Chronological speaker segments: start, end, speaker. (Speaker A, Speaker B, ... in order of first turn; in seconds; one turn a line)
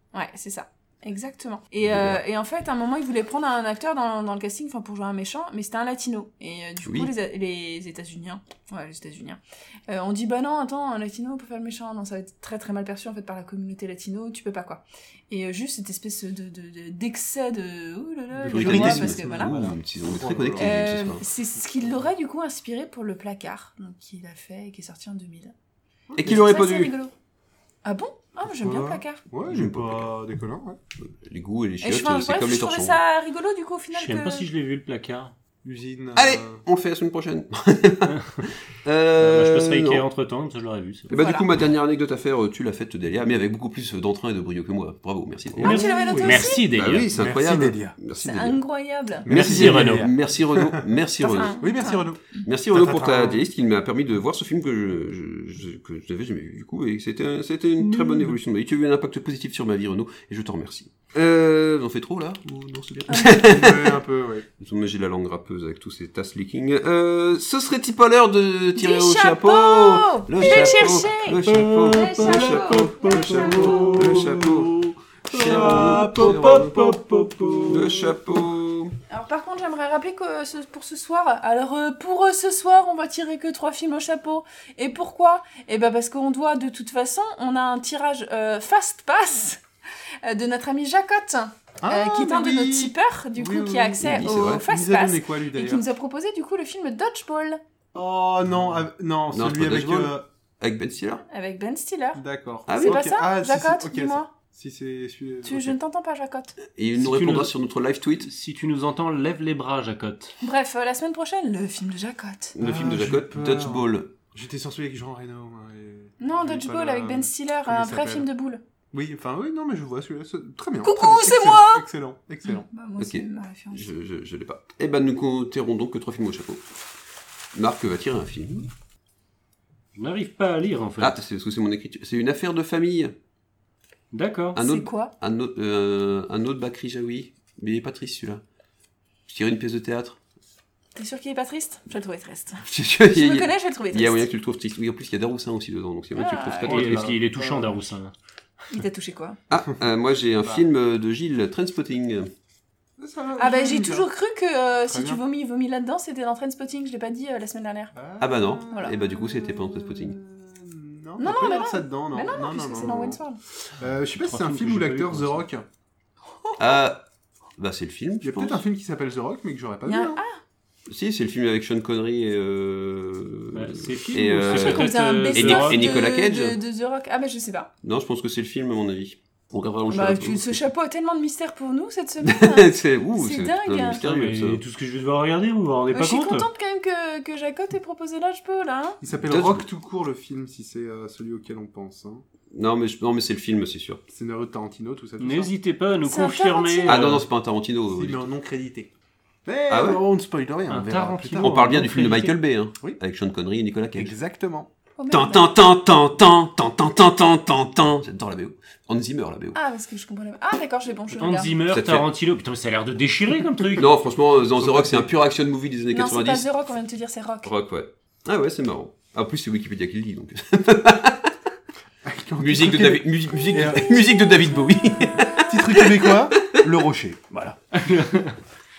Speaker A: 0.1-19.6
Speaker B: 1.8-2.2
Speaker B: 6.8-7.1
Speaker C: 18.3-20.8
Speaker B: 18.5-21.2
Speaker A: 20.6-25.5
Speaker C: 26.1-26.4
Speaker B: 26.1-26.9
Speaker A: 26.2-27.1
Speaker A: 27.8-29.2
Speaker C: 28.6-30.8
Speaker B: 29.5-30.1
Speaker B: 31.2-33.0
Speaker A: 31.8-34.5
Speaker D: 33.9-35.3
Speaker C: 35.6-36.6
Speaker B: 36.1-40.0
Speaker D: 38.0-38.4
Speaker D: 39.2-41.1
Speaker B: 41.1-45.9
Speaker A: 41.1-41.5
Speaker C: 45.5-48.0
Speaker A: 45.6-46.6
Speaker D: 45.7-47.1
Speaker B: 46.8-48.6
Speaker A: 48.2-49.3
Speaker C: 49.2-53.4
Speaker B: 49.2-51.6
Speaker D: 49.3-50.1
Speaker A: 51.2-52.4
Speaker B: 52.4-64.0
Speaker D: 57.8-58.4
Speaker A: 63.1-63.3
Speaker C: 63.1-64.5
Speaker B: 64.6-74.7
Speaker A: 68.8-74.0
Speaker D: 71.4-74.4
Speaker C: 72.2-77.7
Speaker B: 75.3-77.0
Speaker D: 75.3-78.0
Speaker B: 77.7-78.9
Speaker A: 79.1-89.6
Speaker A: 90.2-97.6
Speaker C: 91.8-95.8
Speaker B: 94.0-94.6
Speaker C: 97.9-100.2
Speaker B: 99.3-101.2
Speaker A: 101.3-102.2
Speaker C: 102.2-105.8
Speaker B: 102.7-103.0
Speaker A: 102.8-104.3
Speaker A: 105.4-106.5
Speaker B: 106.8-108.3
Speaker D: 107.0-107.5
Speaker D: 108.2-110.3
Speaker A: 110.4-112.5
Speaker B: 112.5-114.1
Speaker C: 112.6-118.3
Speaker A: 116.2-118.6
Speaker C: 118.9-122.7
Speaker A: 120.8-121.8
Speaker A: 122.5-123.9
Speaker B: 123.0-126.6
Speaker B: 127.5-128.7
Speaker D: 129.9-131.2
Speaker B: 131.0-133.1
Speaker D: 134.1-134.6
Speaker A: 134.6-135.1
Speaker B: 134.6-138.4
Speaker B: 139.3-140.2
Speaker A: 140.9-144.3
Speaker B: 142.7-147.1
Speaker A: 146.1-146.9
Speaker D: 146.7-148.1
Speaker C: 146.7-147.8
Speaker A: 148.7-149.4
Speaker B: 149.5-152.3
Speaker C: 153.0-154.1
Speaker A: 153.4-157.9
Speaker C: 154.9-155.2
Speaker C: 157.9-165.6
Speaker B: 158.2-160.2
Speaker A: 161.2-163.4
Speaker D: 164.2-165.4
Speaker A: 166.4-166.8
Speaker B: 166.6-167.0
Speaker B: 167.6-168.6
Speaker C: 168.2-170.2
Speaker A: 169.8-170.4
Speaker B: 170.9-176.6
Speaker D: 173.5-176.0
Speaker A: 174.5-177.7
Speaker B: 177.8-180.6
Speaker A: 179.9-184.0
Speaker B: 182.2-184.6
Speaker D: 184.1-186.5
Speaker A: 185.9-189.0
Speaker C: 189.0-192.2
Speaker B: 189.2-189.6
Speaker B: 192.5-194.0
Speaker C: 194.1-195.5
Speaker D: 195.2-197.2
Speaker A: 196.0-196.9
Speaker B: 196.8-198.2
Speaker C: 197.9-198.9
Speaker C: 199.4-201.8
Speaker B: 199.7-200.0
Speaker D: 200.7-202.4
Speaker B: 201.4-204.1
Speaker C: 204.0-204.7
Speaker A: 205.0-205.5
Speaker B: 205.1-209.6
Speaker A: 209.5-211.5
Speaker D: 211.2-213.9
Speaker B: 211.7-212.1
Speaker B: 213.8-216.5
Speaker C: 214.5-215.1
Speaker A: 215.9-217.5
Speaker B: 217.4-221.3
Speaker C: 222.0-224.2
Speaker B: 222.4-226.6
Speaker A: 224.9-225.5
Speaker C: 225.3-227.6
Speaker D: 227.7-228.4